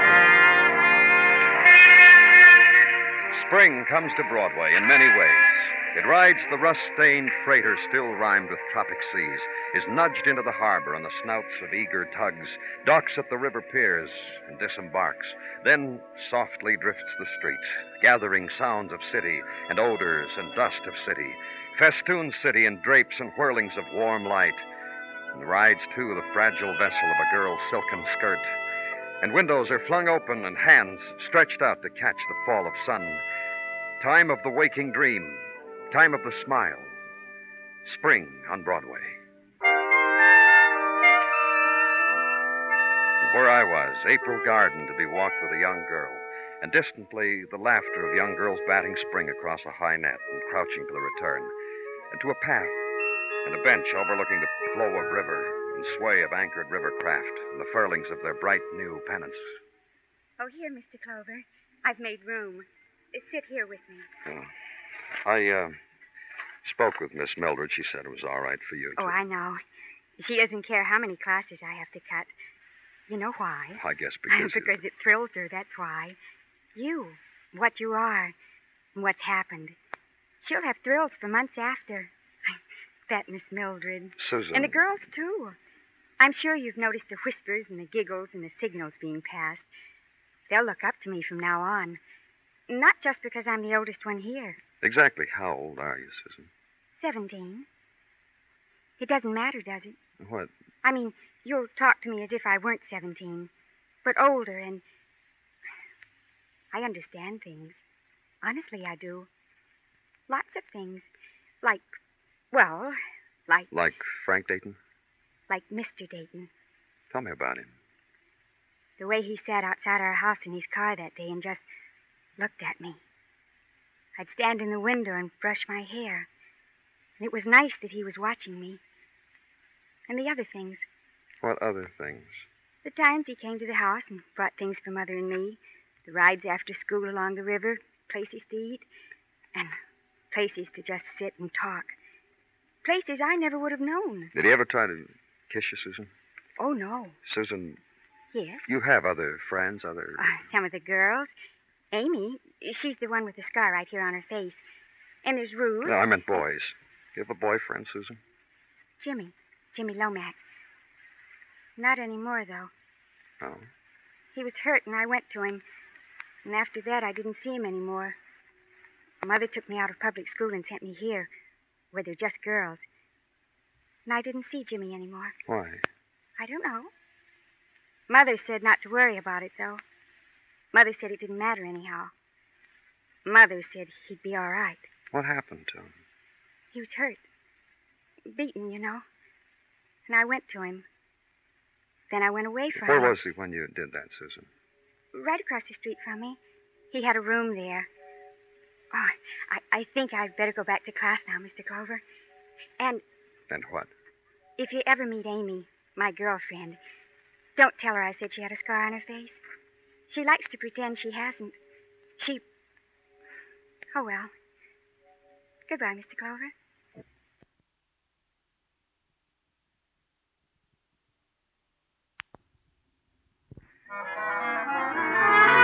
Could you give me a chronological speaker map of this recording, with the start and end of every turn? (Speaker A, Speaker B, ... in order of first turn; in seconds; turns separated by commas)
Speaker A: 3.3-24.6, Speaker A: 25.3-28.6, Speaker A: 29.2-33.2, Speaker A: 34.0-37.0, Speaker A: 37.9-39.2, Speaker A: 43.2-51.5, Speaker A: 52.1-52.8, Speaker A: 53.5-59.6, Speaker B: 60.4-64.1, Speaker A: 64.3-64.5, Speaker A: 65.2-65.8, Speaker A: 66.6-69.2, Speaker B: 69.0-69.6, Speaker B: 70.2-72.3, Speaker B: 73.1-76.2, Speaker A: 73.8-74.8, Speaker B: 76.8-78.3, Speaker B: 79.0-79.8, Speaker B: 80.4-85.6, Speaker A: 84.2-84.8, Speaker B: 86.2-89.7, Speaker B: 90.5-92.0, Speaker B: 92.7-94.6, Speaker A: 94.8-96.5, Speaker B: 97.0-97.7, Speaker B: 99.0-100.0, Speaker A: 100.2-100.5, Speaker B: 100.8-103.5, Speaker B: 104.0-104.8, Speaker B: 106.7-107.8, Speaker B: 108.4-109.3, Speaker B: 110.3-111.1, Speaker B: 111.6-111.9, Speaker B: 112.5-113.0, Speaker A: 113.7-114.8, Speaker B: 115.5-116.5, Speaker A: 117.1-117.7, Speaker B: 119.0-121.7, Speaker B: 122.4-123.0, Speaker B: 124.2-126.3, Speaker B: 127.2-128.8, Speaker B: 130.1-130.9, Speaker A: 131.4-132.4, Speaker B: 132.8-138.9, Speaker B: 140.3-142.0, Speaker B: 142.8-144.3, Speaker A: 144.3-146.1, Speaker B: 146.6-147.2, Speaker A: 147.2-147.8, Speaker B: 148.3-148.8, Speaker A: 148.7-150.2, Speaker B: 150.2-151.3, Speaker B: 151.9-154.6, Speaker B: 155.2-156.0, Speaker A: 155.8-158.2, Speaker B: 159.0-160.4, Speaker B: 161.8-162.7, Speaker A: 163.4-163.7, Speaker B: 164.3-165.6, Speaker B: 166.4-168.2, Speaker B: 169.2-171.3, Speaker B: 171.9-172.9, Speaker B: 174.1-175.4, Speaker A: 175.5-175.8, Speaker B: 176.4-176.9, Speaker B: 178.1-179.8, Speaker B: 180.7-182.1, Speaker B: 183.2-184.9, Speaker A: 185.1-185.9, Speaker B: 186.7-187.2, Speaker B: 188.3-189.0, Speaker B: 190.1-190.9, Speaker B: 192.1-193.2, Speaker A: 192.7-194.5, Speaker B: 195.1-196.4, Speaker B: 196.9-197.9, Speaker B: 198.9-202.0, Speaker A: 203.5-203.9, Speaker B: 204.6-206.8, Speaker B: 207.6-209.4, Speaker B: 210.1-211.6, Speaker B: 212.2-212.4, Speaker B: 213.9-214.3, Speaker B: 215.7-216.5